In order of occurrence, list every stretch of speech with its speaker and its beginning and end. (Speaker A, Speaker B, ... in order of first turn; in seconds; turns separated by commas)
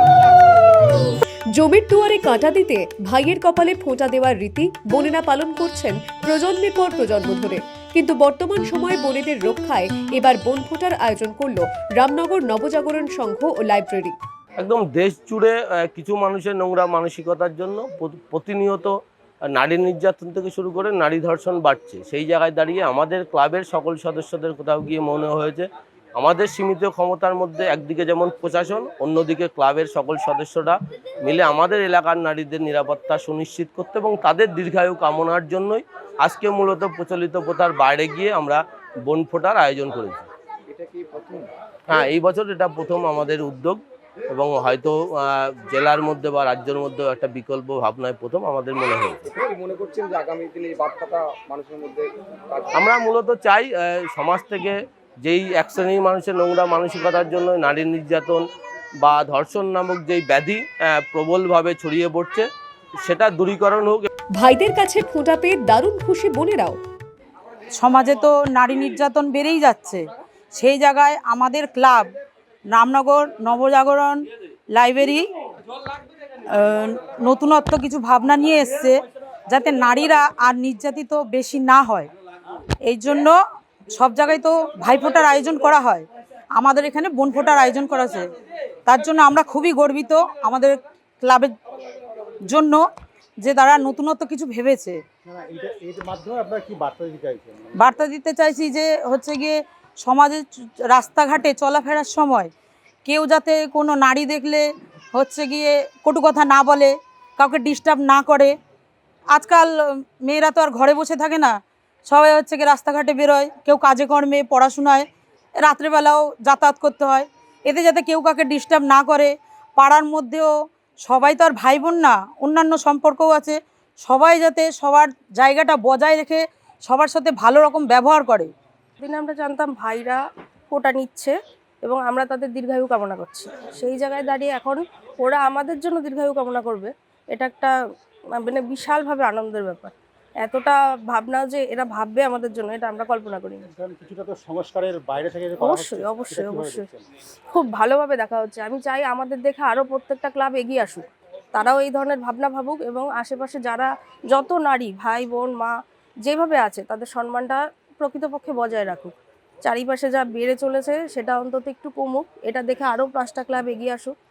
Speaker A: 1.6-14.2, Speaker B: 14.6-18.9, Speaker B: 19.5-40.3, Speaker C: 40.7-41.5, Speaker B: 41.9-43.8, Speaker B: 44.3-49.4, Speaker C: 49.3-52.8, Speaker B: 52.7-58.4, Speaker B: 59.0-62.5, Speaker B: 63.0-64.1, Speaker A: 64.4-66.8, Speaker D: 67.8-72.1, Speaker D: 72.7-74.2, Speaker D: 74.7-75.2, Speaker D: 76.5-79.0, Speaker D: 79.5-82.1, Speaker D: 82.8-83.3, Speaker D: 83.9-88.3, Speaker D: 88.9-91.5, Speaker D: 92.5-92.8, Speaker D: 93.4-95.0, Speaker E: 95.3-98.0, Speaker D: 97.8-102.5, Speaker D: 103.0-108.5, Speaker D: 109.3-115.0, Speaker D: 115.6-120.5, Speaker D: 121.0-128.5, Speaker F: 129.0-130.2, Speaker F: 130.7-137.8, Speaker F: 138.3-143.6, Speaker E: 143.7-147.0, Speaker F: 145.6-146.9, Speaker F: 147.5-164.1